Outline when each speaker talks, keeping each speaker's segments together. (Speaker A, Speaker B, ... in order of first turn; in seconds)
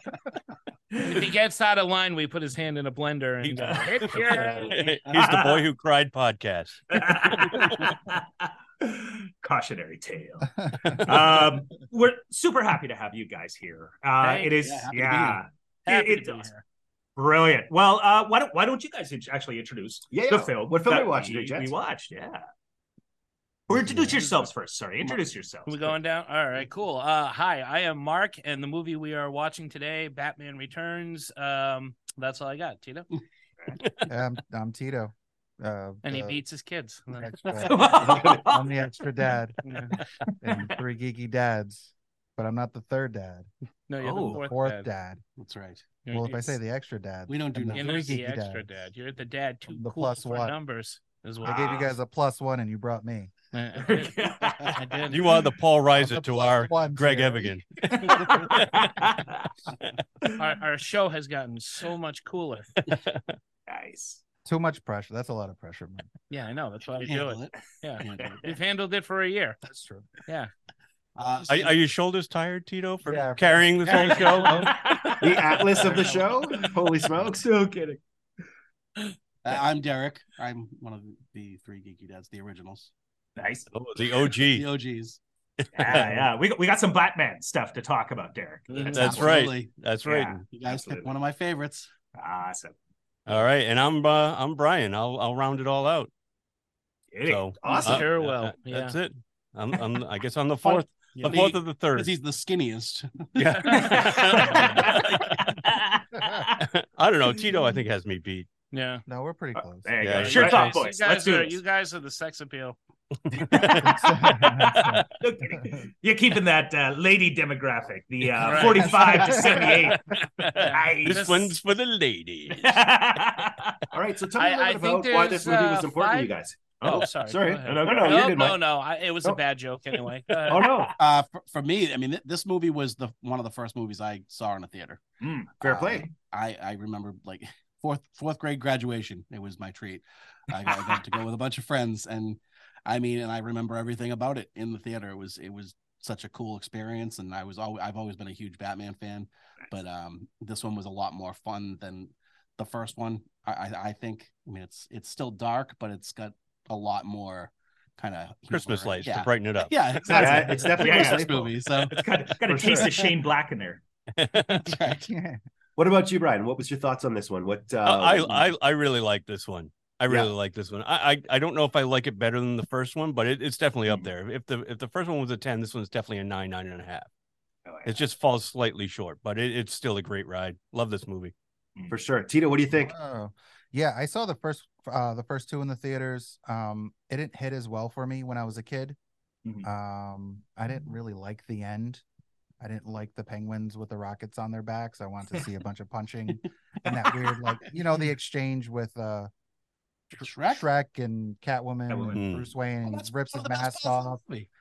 Speaker A: 0.9-1.2, 3.5-5.6, 6.9-16.5, 17.1-22.4, 23.7-25.9, 37.6-38.9, 40.4-40.7, 44.0-44.4, 53.9-54.8, 57.9-59.5, 63.7-64.2, 74.0-78.0, 83.4-83.7, 85.8-89.5, 90.0-91.1, 92.1-92.7, 97.1-98.0, 103.7-106.6, 109.8-111.6, 113.5-120.0, 120.6-121.5, 122.5-123.8, 126.8-127.1, 127.6-128.4, 135.2-135.5, 160.1-163.8, 177.7-178.0, 201.9-202.2
Speaker B: 1.0-4.8, 14.2-14.6, 15.9-16.6, 25.6-33.1, 36.0-37.7, 39.6-40.0, 43.9-44.9, 46.0-46.6, 47.7-51.9, 53.5-55.4, 60.4-62.7, 66.3-69.6, 88.7-89.0, 97.7-99.0, 101.1-101.4, 103.5-104.8, 108.7-109.0, 110.1-112.8, 118.4-119.7, 120.5-121.5, 124.4-130.7
Speaker C: 4.2-7.9, 55.1-58.7, 62.8-63.4, 71.5-74.8, 83.7-84.7, 85.6-86.2, 88.9-90.5, 93.3-96.1, 97.2-102.1, 103.3-105.0, 106.6-108.5, 110.0-110.7, 113.4-113.8, 120.4-122.8, 158.5-160.5, 164.2-164.7, 167.8-177.1, 177.8-181.3, 202.1-202.5
Speaker D: 14.6-15.4, 45.4-45.9, 47.3-48.2, 67.0-68.5, 71.2-71.8, 73.8-74.5, 75.9-76.2, 79.4-82.9, 84.5-85.2, 85.9-86.2, 88.9-89.8, 90.4-91.9, 101.2-103.3, 131.0-135.0, 135.7-163.1, 164.5-165.1, 200.2-200.7, 202.8-204.5
Speaker E: 20.1-21.7, 23.7-24.1, 38.0-38.4, 75.2-77.5, 123.9-128.6, 130.5-130.9, 135.6-136.1, 160.1-161.5, 162.5-162.9, 165.8-168.5, 181.9-182.9
Speaker F: 23.8-24.2, 34.1-36.4, 37.2-43.5, 44.3-45.2, 46.1-48.6, 49.7-50.5, 51.4-53.3, 55.9-57.5, 64.5-66.1, 69.6-70.0, 73.0-74.7, 106.2-106.4, 109.1-109.9, 113.8-115.0, 119.1-119.7, 165.1-165.4, 182.7-189.0, 189.6-192.0, 192.6-199.3, 200.1-204.2